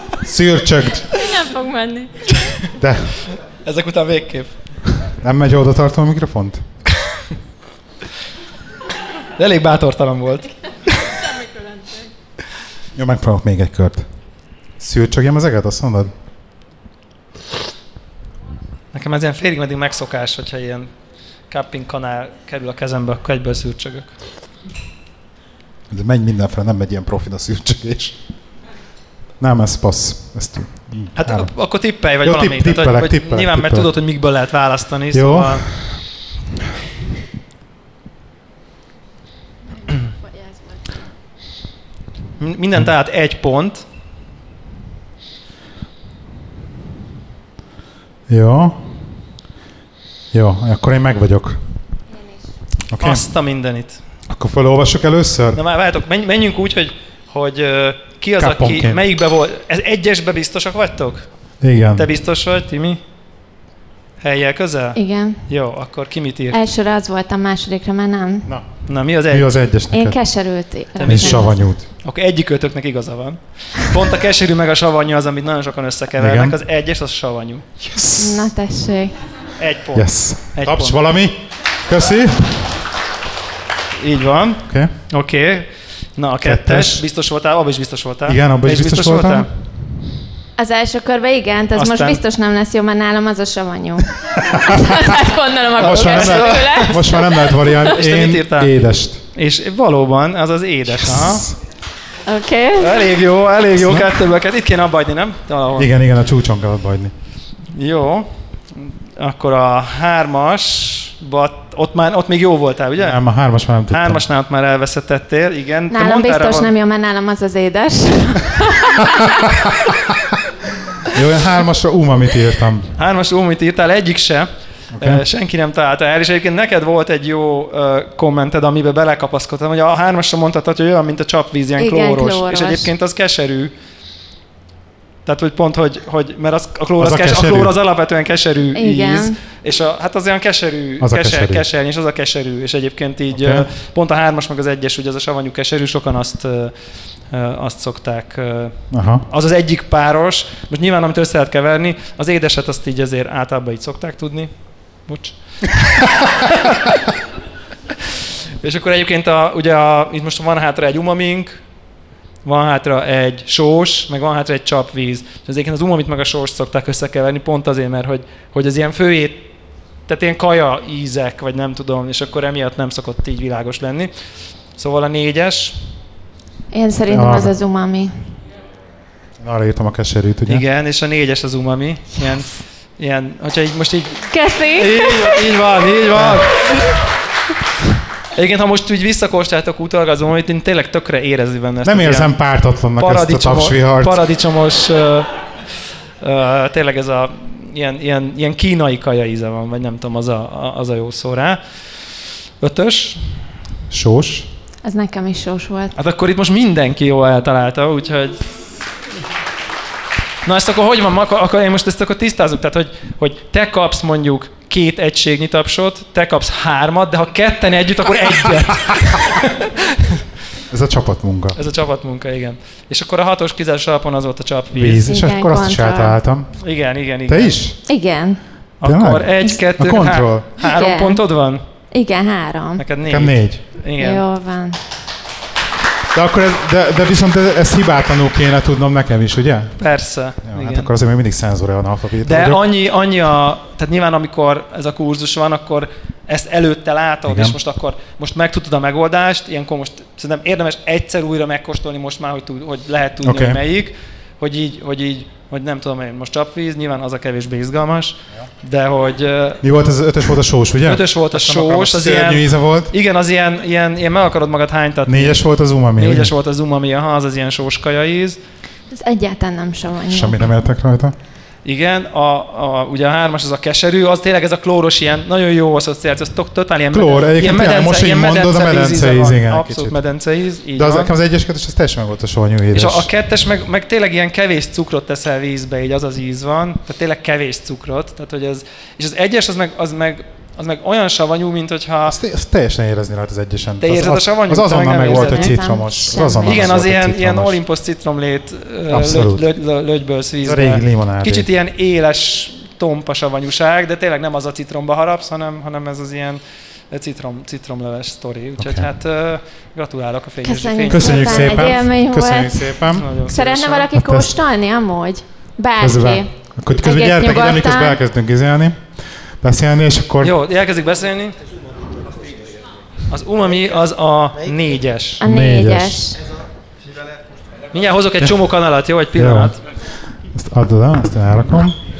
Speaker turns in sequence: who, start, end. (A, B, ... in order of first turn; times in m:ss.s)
0:00.2-0:01.2 A
0:01.1-0:02.2 B
0:02.4-0:02.7 C
0:02.8-0:03.2 A
0:03.3-0:05.0 C
0:05.0-0:06.8 A
0:09.4-0:10.6 C
0:12.9-0:16.1 A
0:18.9-0:24.1 C
0:25.9-0:28.2 A
0:29.4-0:31.6 A
0:31.2-0:35.8 C
0:32.2-0:33.9 A
0:35.1-0:36.2 A
0:39.8-0:41.0 B
0:42.4-0:43.9 C
0:48.3-0:49.2 A
0:50.3-0:51.7 A
0:52.1-0:52.6 B
0:52.9-0:53.3 A
0:53.0-0:54.0 C
0:54.3-0:55.6 A
0:55.5-1:03.0 C
0:58.4-0:59.0 A
1:01.6-1:02.1 A
1:04.2-1:06.6 C
1:05.0-1:05.5 B
1:06.5-1:08.5 B
1:08.4-1:10.5 A
1:08.9-1:09.5 C
1:09.9-1:11.5 B
1:11.0-1:17.7 C
1:11.0-1:11.9 A
1:16.2-1:16.6 A
1:17.8-1:18.5 A
1:18.2-1:19.3 B
1:19.6-1:21.0 C
1:19.9-1:22.8 A
1:24.0-1:29.5 C
1:24.7-1:24.9 A
1:26.4-1:27.0 A
1:28.3-1:29.5 A
1:30.6-1:37.8 B
1:31.8-1:32.2 C
1:35.8-1:39.2 A
1:35.8-1:41.6 C
1:40.9-1:41.6 A
1:42.2-1:43.0 B
1:42.8-1:45.9 C
1:43.7-1:44.2 A
1:45.8-1:47.1 A
1:47.7-1:53.2 C
1:53.0-1:54.2 A
1:53.9-1:56.7 C
1:55.9-1:59.2 B
2:01.1-2:03.0 A
2:03.0-2:13.7 C
2:05.0-2:05.2 A
2:11.8-2:12.9 B
2:15.2-2:37.0 C
2:17.0-2:17.7 A
2:18.7-2:19.4 B
2:21.0-2:21.6 A
2:23.3-2:23.7 A
2:28.9-2:29.3 A
2:38.6-2:41.7 C
2:42.4-2:54.1 C
2:54.7-2:56.0 C
2:56.7-2:58.2 B
2:57.1-2:57.5 A
2:59.4-3:00.6 A
3:00.5-3:07.0 C
3:04.3-3:05.4 B
3:06.1-3:06.4 A
3:08.4-3:15.5 C
3:11.8-3:14.2 A
3:16.2-3:23.5 C
3:23.9-3:24.5 A
3:24.8-3:26.0 B
3:26.0-3:28.7 C
3:30.4-3:39.7 C
3:40.7-3:41.6 A
3:41.6-3:45.1 C
3:44.7-3:46.6 A
3:45.0-3:46.2 B
3:46.6-3:47.7 C
3:47.3-3:47.8 A
3:47.9-3:48.4 B
3:48.8-3:51.6 C
3:48.8-3:50.5 A
3:50.6-3:51.2 B
3:51.9-3:52.8 B
3:52.8-3:54.2 C
3:53.1-3:53.6 A
3:54.0-3:54.8 B
3:56.1-3:59.9 A
3:59.8-4:00.9 C
4:00.4-4:02.6 A
4:02.2-4:19.6 C
4:07.3-4:07.6 A
4:13.2-4:13.6 A
4:19.6-4:22.9 A
4:20.8-4:28.4 C
4:25.1-4:26.3 A
4:28.9-4:30.4 B
4:30.1-4:31.2 A
4:31.6-4:41.1 C
4:36.9-4:40.0 A
4:40.8-4:43.1 A
4:42.7-4:52.2 C
4:52.1-4:57.6 A
4:53.8-4:55.6 C
4:55.0-4:56.8 B
4:56.4-5:11.7 C
4:58.9-4:59.5 A
5:00.4-5:01.5 A
5:08.6-5:08.9 A
5:10.4-5:18.0 B
5:10.9-5:13.1 A
5:12.9-5:13.9 C
5:14.0-5:14.4 A
5:15.8-5:20.4 A
5:20.2-5:21.4 C
5:23.1-5:25.2 C
5:25.2-5:26.2 B
5:25.2-5:26.1 A
5:27.7-5:29.6 C
5:29.1-5:31.8 A